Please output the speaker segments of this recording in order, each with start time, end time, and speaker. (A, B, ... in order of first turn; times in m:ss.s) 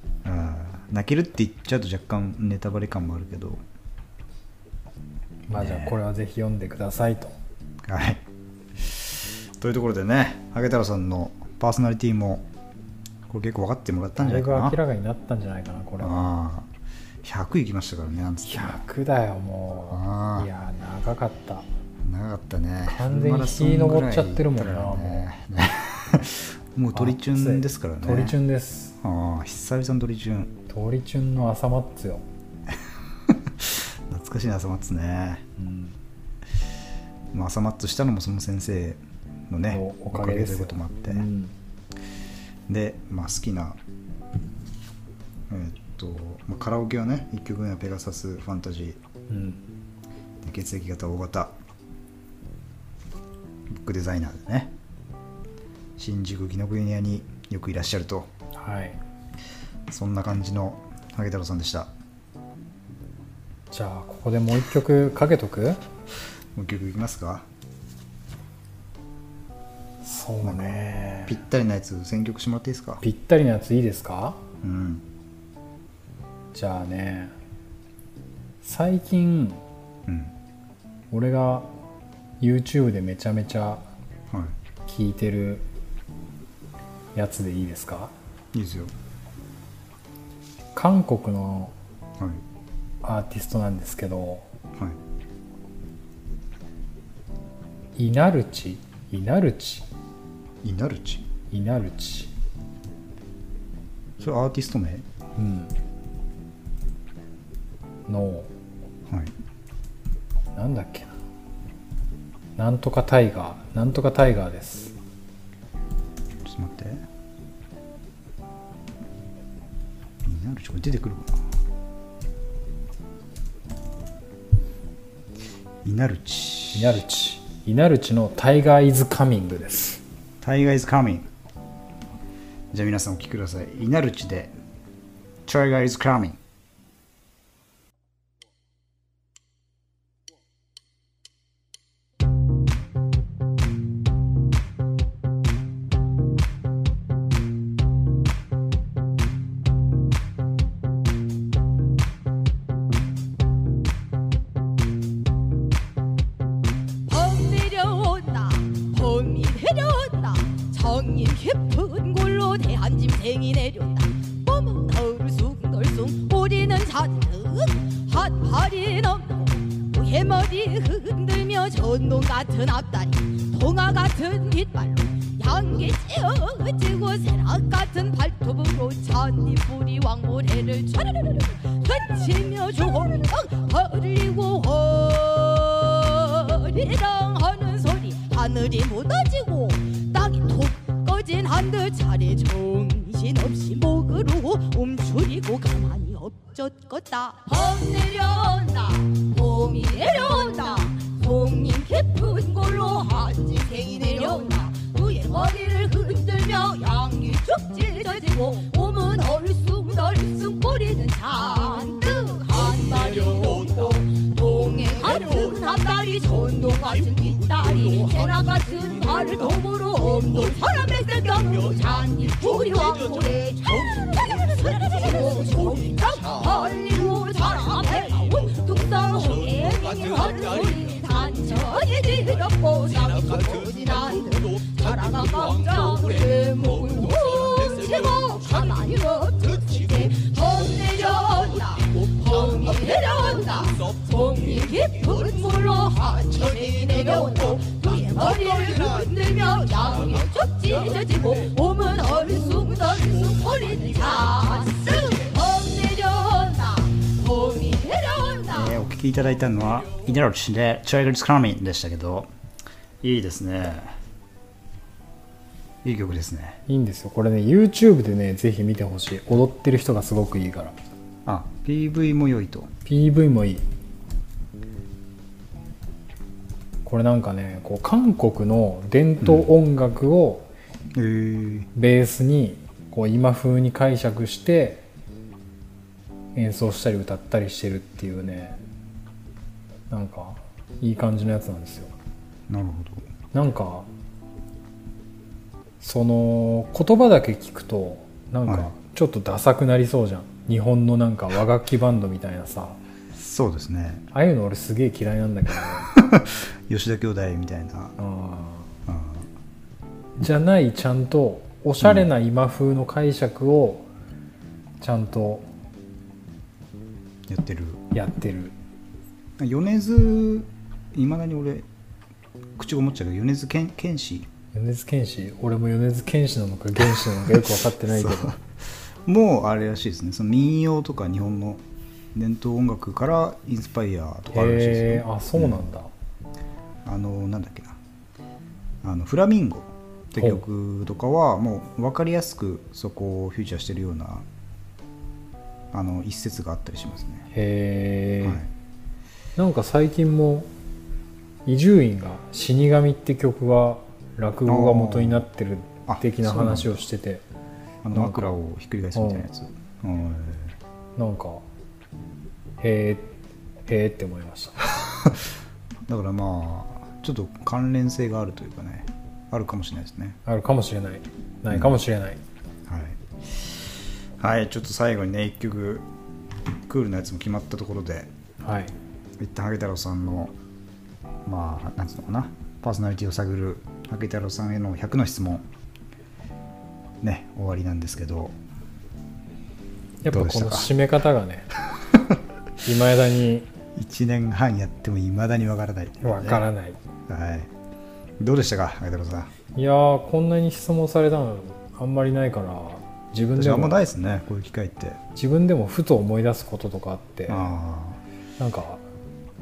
0:00.2-0:03.6 A
0:05.5-0:07.3 B
0:05.5-0:06.0 A
0:07.8-0:08.2 A
0:08.8-0:12.5 A
0:13.3-0:14.8 A
0:14.2-0:16.3 B
0:16.0-0:16.7 A
0:17.2-0:18.8 A
0:18.4-0:21.7 B
0:19.9-0:20.5 A
0:22.0-0:28.4 A
0:22.8-0:25.3 B
0:26.9-0:29.0 B
0:29.0-0:30.5 A
0:30.7-0:32.2 B
0:32.7-0:35.4 A
0:35.6-0:36.0 B
0:37.3-0:41.3 A
0:39.7-0:41.5 B
0:42.7-0:43.8 A
0:45.5-0:49.0 A
0:49.3-0:49.6 B
0:50.4-0:51.5 A
0:53.7-0:54.7 A
0:56.0-0:58.3 A
0:58.5-0:59.0 B
0:59.9-1:01.9 A
1:03.7-1:05.8 B
1:06.5-1:07.5 A
1:10.0-1:11.4 B
1:11.2-1:13.0 A
1:13.0-1:14.4 B
1:14.6-1:15.0 A
1:16.5-1:17.3 B
1:18.6-1:19.6 B
1:20.0-1:20.3 A
1:21.1-1:21.7 B
1:22.4-1:23.8 B
1:24.3-1:24.5 A
1:24.8-1:25.6 B
1:27.1-1:28.1 B
1:28.5-1:28.9 A
1:30.7-1:31.7 B
1:32.2-1:32.4 A
1:33.0-1:34.5 B
1:37.9-1:39.9 B
1:40.6-1:41.3 A
1:41.5-1:42.3 B
1:44.2-1:45.0 A
1:45.4-1:45.7 B
1:48.1-1:48.5 B
1:49.1-1:49.3 A
1:50.6-1:51.2 B
1:52.6-1:54.9 B
1:56.4-1:57.0 A
2:00.2-2:01.4 A
2:05.8-2:07.0 A
2:06.7-2:10.0 B
2:10.4-2:11.3 A
2:12.7-2:14.6 A
2:15.4-2:16.4 A
2:37.1-4:18.8 C
4:18.5-4:22.3 A
4:23.0-4:24.0 A
4:25.8-4:26.6 A
4:26.7-4:30.8 B
4:31.2-4:32.7 A
4:32.8-4:33.6 B
4:36.8-4:40.5 B
4:39.2-4:39.5 A
4:40.9-4:41.7 A
4:41.7-4:44.8 B
4:46.3-4:48.6 B
4:49.9-4:51.9 B
4:52.5-4:53.1 A
4:53.3-4:53.9 B
4:55.8-5:02.8 B
5:03.1-5:04.1 A
5:04.1-5:05.9 B
5:05.9-5:08.0 A
5:08.0-5:08.7 B
5:08.8-5:09.3 A
5:10.2-5:13.9 B
5:11.8-5:12.1 A
5:14.8-5:15.5 B
5:17.3-5:17.8 A
5:17.9-5:18.5 B
5:19.4-5:21.7 A
5:22.6-5:24.3 A
5:24.5-5:28.3 B
5:27.9-5:28.4 A
5:29.0-5:31.6 A
5:32.1-5:35.6 A
5:34.3-5:35.9 B
5:36.8-5:37.8 A
5:38.8-5:44.3 A
5:45.7-5:47.3 A
5:47.3-5:48.4 B
5:48.2-5:48.5 A
5:49.4-5:50.5 B
5:51.4-5:57.2 B
5:54.5-5:55.2 A
5:55.9-5:56.8 A
5:57.8-6:00.5 A
5:57.9-5:58.4 B
5:58.9-5:59.3 B
6:01.0-6:01.4 B
6:02.6-6:04.7 B
6:05.9-6:10.2 A
6:10.2-6:12.2 B
6:12.7-6:15.9 A
6:16.7-6:18.1 A
6:18.4-6:18.7 B
6:19.2-6:20.4 A
6:21.2-6:25.5 A
6:27.0-6:28.4 A
6:30.0-6:31.5 B
6:30.1-6:30.7 A
6:32.6-6:33.5 B
6:33.8-6:36.4 A
6:36.0-6:36.8 B
6:37.1-6:37.5 A
6:38.2-6:39.3 A
6:39.5-6:43.8 B
6:43.4-6:45.0 A
6:45.1-6:47.5 B
6:47.3-6:48.0 A
6:48.4-6:48.8 B